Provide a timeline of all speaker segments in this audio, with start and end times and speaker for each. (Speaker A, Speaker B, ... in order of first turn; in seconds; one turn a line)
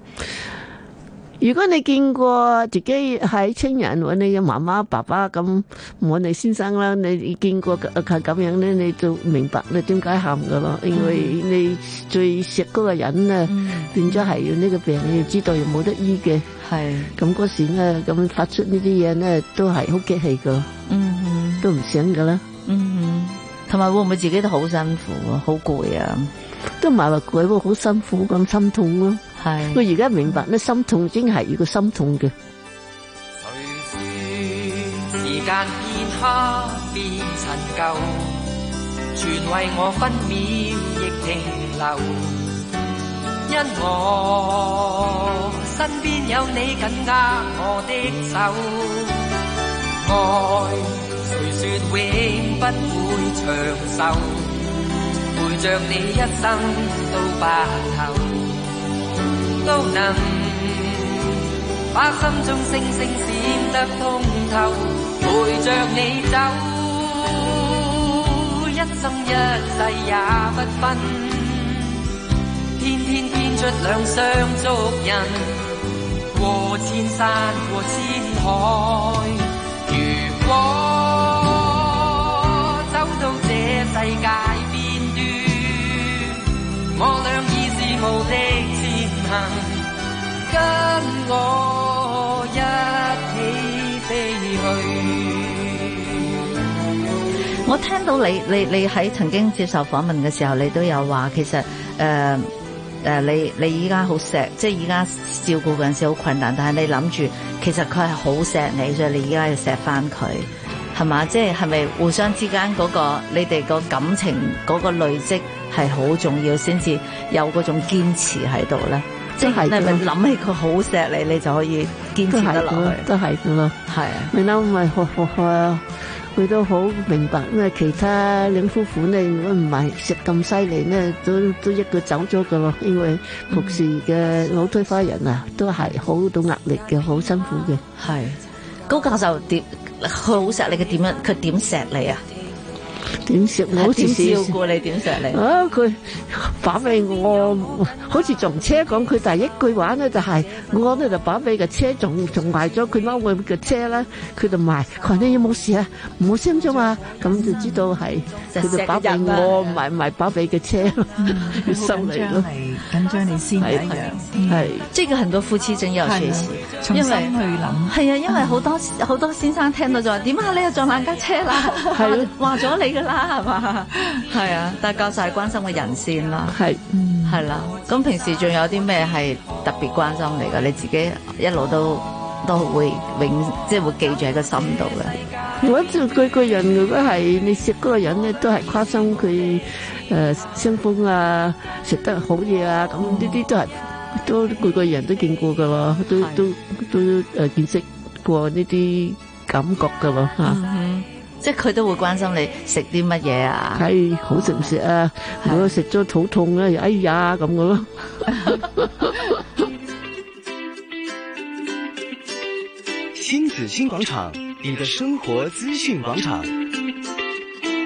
Speaker A: 1.4-16.5
Speaker B: 10.9-11.4
Speaker B: 13.5-14.3
Speaker B: 16.6-17.1
Speaker A: 17.2-20.7
Speaker B: 20.9-21.7
Speaker A: 21.6-22.4
Speaker B: 22.7-26.3
Speaker A: 26.8-32.3
Speaker B: 29.4-29.8
Speaker C: 33.4-38.5
Speaker C: 39.1-42.5
Speaker C: 43.5-49.2
Speaker C: 50.0-54.6
Speaker C: 55.3-58.7
Speaker C: 59.6-72.0
Speaker C: 72.8-75.7
Speaker C: 76.3-89.9
Speaker C: 90.5-96.3
Speaker B: 97.7-102.5
Speaker B: 103.0-123.1
Speaker A: 119.4-120.0
Speaker A: 122.3-123.8
Speaker B: 123.9-124.3
Speaker A: 124.3-137.8
Speaker B: 133.5-133.8
Speaker B: 138.0-142.2
Speaker A: 143.2-144.6
Speaker B: 143.7-145.4
Speaker A: 145.3-162.5
Speaker D: 157.4-157.8
Speaker B: 158.5-159.8
Speaker D: 161.2-164.7
Speaker A: 163.6-163.9
Speaker A: 164.5-164.9
Speaker B: 164.9-167.4
Speaker D: 166.0-168.6
Speaker B: 167.9-176.6
Speaker A: 171.9-172.3
Speaker A: 176.5-176.8
Speaker D: 176.9-177.5
Speaker B: 177.3-185.2
Speaker A: 185.6-200.6
Speaker B: 193.0-193.4
Speaker B: 196.2-196.5
Speaker B: 200.4-203.9
Speaker A: 203.8-207.9
Speaker B: 204.4-204.8
Speaker B: 205.4-205.7
Speaker A: 208.4-209.2
Speaker E: 213.2-216.5